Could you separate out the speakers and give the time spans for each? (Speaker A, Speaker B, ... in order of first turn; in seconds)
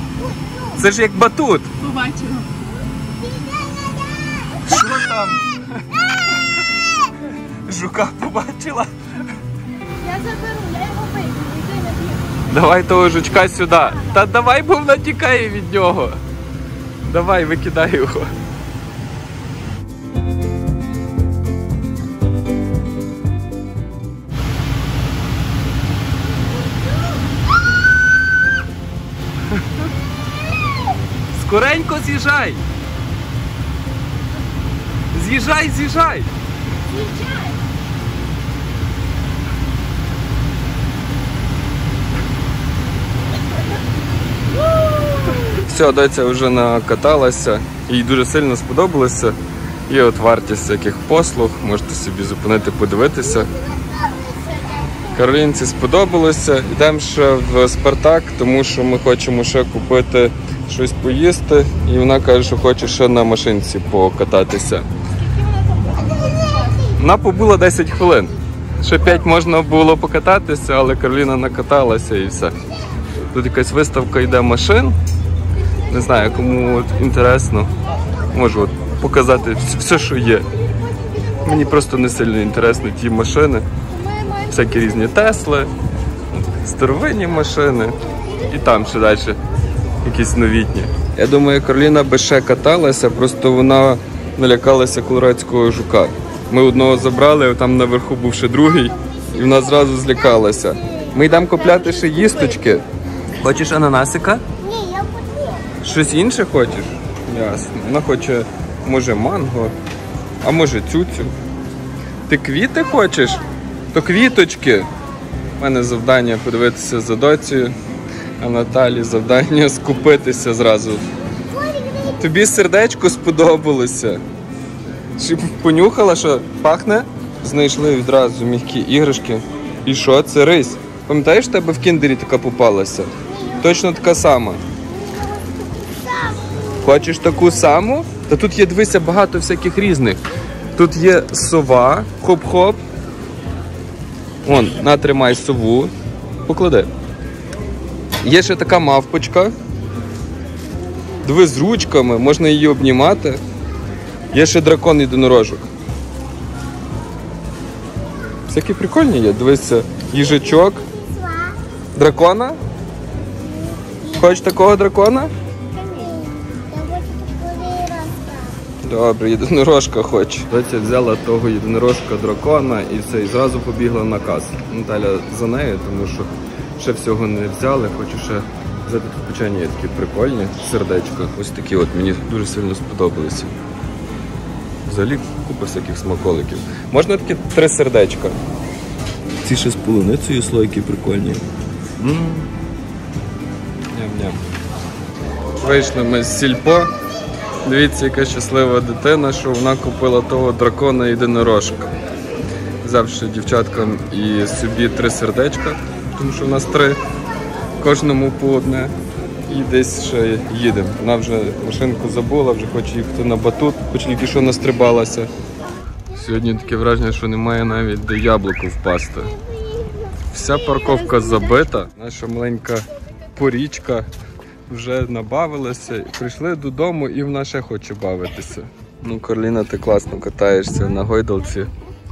Speaker A: 0.2-0.8, 2.6-4.8, 36.9-37.6, 53.2-55.2, 66.0-67.0, 98.6-101.3, 104.6-105.8, 121.3-122.4, 133.2-133.9, 134.8-137.0, 160.1-161.6, 163.3-164.4, 165.7-168.6, 219.4-220.3
Speaker B: 0.8-1.7, 4.6-6.4, 7.5-8.9, 12.5-16.2, 17.0-18.3, 29.6-29.8, 31.3-32.6, 35.1-36.3, 45.4-53.5, 55.1-64.9, 67.0-72.6, 73.3-75.0, 75.9-77.7, 78.3-80.5, 81.4-83.7, 84.5-85.7, 86.3-89.4, 90.0-102.8, 103.4-104.4, 105.8-109.7, 110.4-111.3, 112.3-114.9, 115.6-117.7, 118.4-121.0, 122.2-124.2, 125.2-134.6, 136.8-140.2, 140.8-142.8, 144.4-145.9, 146.4-146.9, 148.2-149.5, 151.2-153.4, 154.3-155.7, 158.5-160.8, 162.0-162.6, 164.2-165.3, 168.8-183.6, 184.9-188.4, 189.4-191.4, 192.0-192.5, 193.9-194.4, 195.6-196.9, 197.6-201.9, 202.8-207.0, 207.8-208.9, 209.5-215.3, 216.1-219.4, 220.3-224.1, 224.7-231.7
Speaker C: 1.8-2.5, 10.0-12.3, 36.9-37.3, 65.1-66.9, 83.9-85.0, 101.3-102.8, 220.7-221.6